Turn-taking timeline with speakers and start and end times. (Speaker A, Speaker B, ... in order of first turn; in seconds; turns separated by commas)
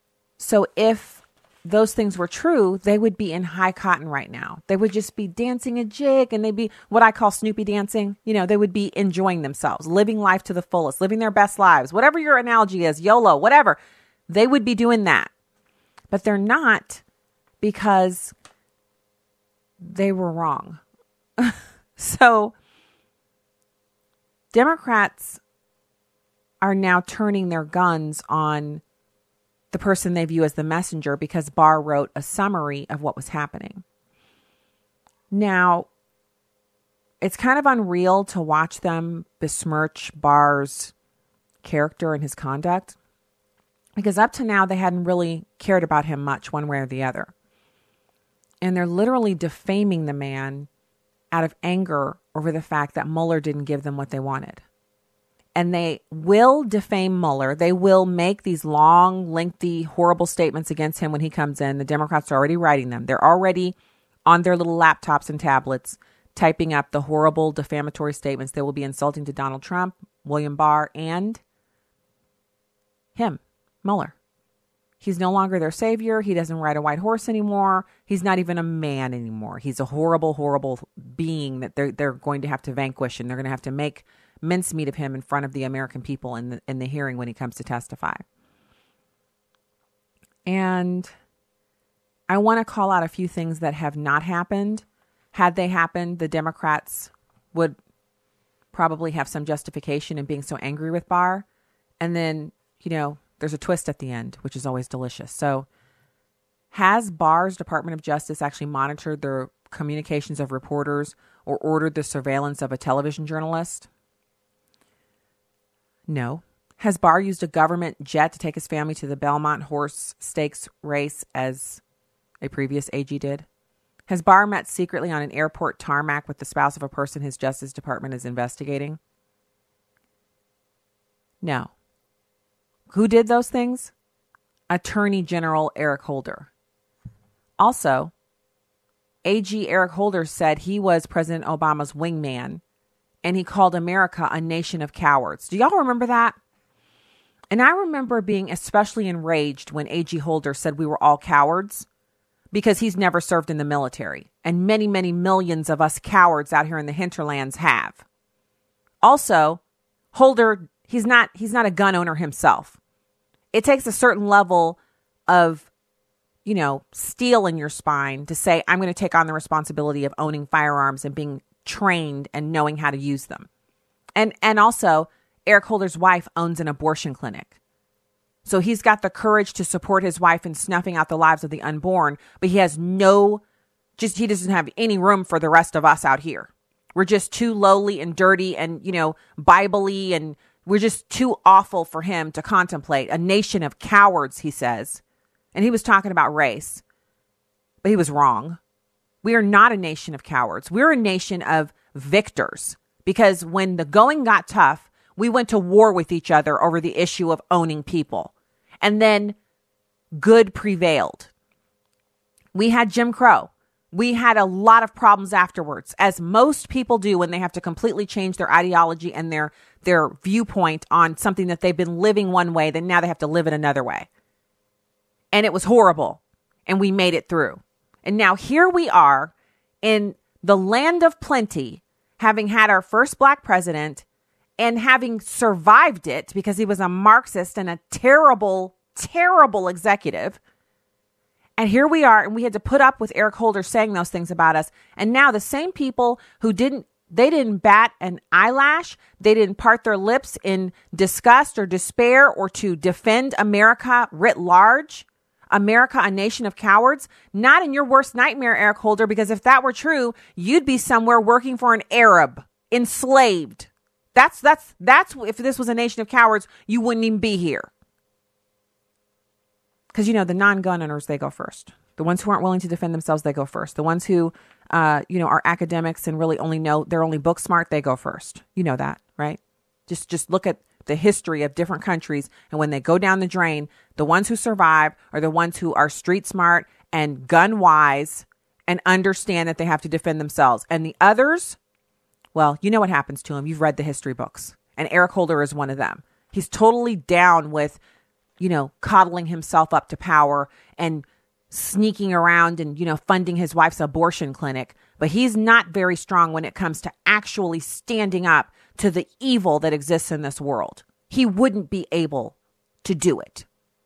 Speaker A: 0.4-15.3, Speaker A: 16.1-17.0, Speaker A: 17.6-18.3, Speaker A: 19.8-20.8, Speaker A: 21.4-22.5, Speaker A: 24.5-25.4, Speaker A: 26.6-28.8, Speaker A: 29.7-33.8, Speaker A: 35.3-35.9, Speaker A: 37.2-40.9, Speaker A: 41.6-43.0, Speaker A: 44.0-47.3, Speaker A: 48.6-50.7, Speaker A: 51.3-54.6, Speaker A: 55.5-63.8, Speaker A: 64.3-71.4, Speaker A: 73.2-74.1, Speaker A: 75.0-88.2, Speaker A: 90.5-91.1, Speaker A: 92.3-97.8, Speaker A: 98.7-101.5, Speaker A: 102.0-105.7, Speaker A: 106.7-113.9, Speaker A: 116.1-121.8, Speaker A: 122.4-123.5, Speaker A: 124.1-129.0, Speaker A: 131.4-131.7, Speaker A: 132.9-133.9, Speaker A: 134.7-136.5, Speaker A: 137.6-138.1, Speaker A: 139.2-142.6, Speaker A: 143.2-146.3, Speaker A: 147.5-151.9, Speaker A: 152.5-158.0, Speaker A: 159.0-159.6, Speaker A: 160.1-162.8, Speaker A: 163.5-165.7, Speaker A: 166.4-173.5, Speaker A: 174.2-177.5, Speaker A: 178.5-183.4, Speaker A: 184.0-195.0, Speaker A: 195.5-196.8, Speaker A: 197.8-198.6, Speaker A: 199.2-209.4, Speaker A: 210.1-211.3, Speaker A: 212.5-224.1, Speaker A: 225.3-234.1, Speaker A: 234.6-240.4, Speaker A: 241.6-267.7, Speaker A: 269.9-291.6, Speaker A: 292.3-297.8, Speaker A: 298.4-313.4